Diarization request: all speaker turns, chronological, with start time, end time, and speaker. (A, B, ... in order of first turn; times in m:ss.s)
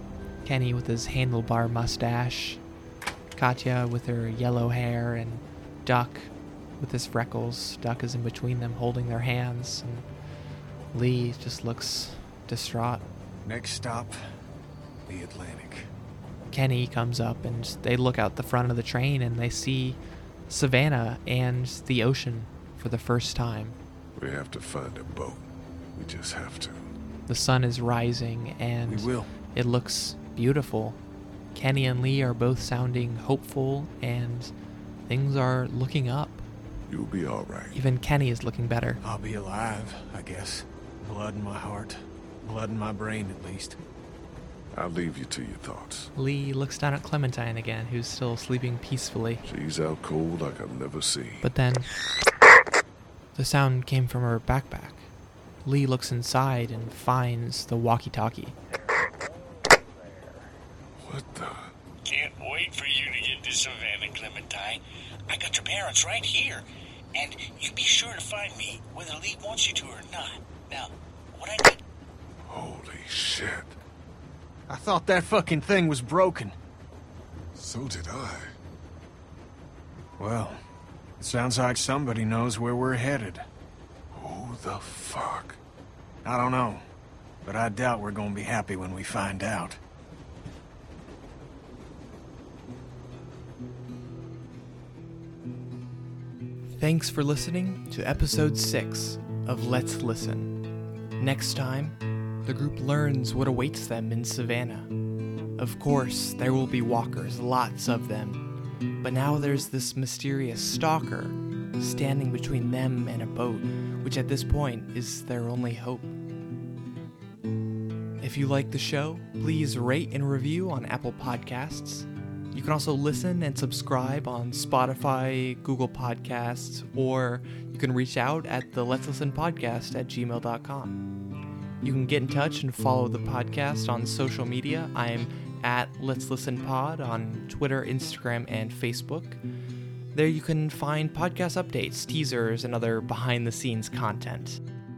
0:00.4-0:02.6 A
0:03.4-0:10.0 A
0:10.9-0:13.0 A
0:13.4-0:14.2 B
0:15.0-0:15.9 B
0:16.5-0:23.8 A
0:24.2-0:26.9 C
0:27.3-0:31.0 A
0:28.9-0:29.3 B
0:31.5-0:34.5 A
0:35.0-0:36.4 A
0:36.9-0:37.8 C
0:37.7-0:39.0 A
0:39.0-0:43.8 B
0:44.7-0:46.1 C
0:46.2-0:49.4 A
0:49.4-0:51.5 C
0:51.4-0:51.9 A
0:53.3-0:55.1 A
0:55.6-0:58.5 A
1:01.0-1:01.7 C
1:02.0-1:06.6 D
1:07.1-1:11.8 D
1:12.4-1:13.8 C
1:14.7-1:16.5 B
1:17.5-1:18.5 C
1:20.2-1:20.6 B
1:21.2-1:23.4 B
1:24.1-1:25.6 C
1:26.2-1:26.8 B
1:27.4-1:29.8 B
1:36.8-1:40.5 A
1:41.2-1:44.9 A
1:45.6-1:48.4 A
1:49.0-1:56.1 A
1:58.2-2:11.0 A
2:11.8-2:19.4 A
2:20.1-2:24.6 A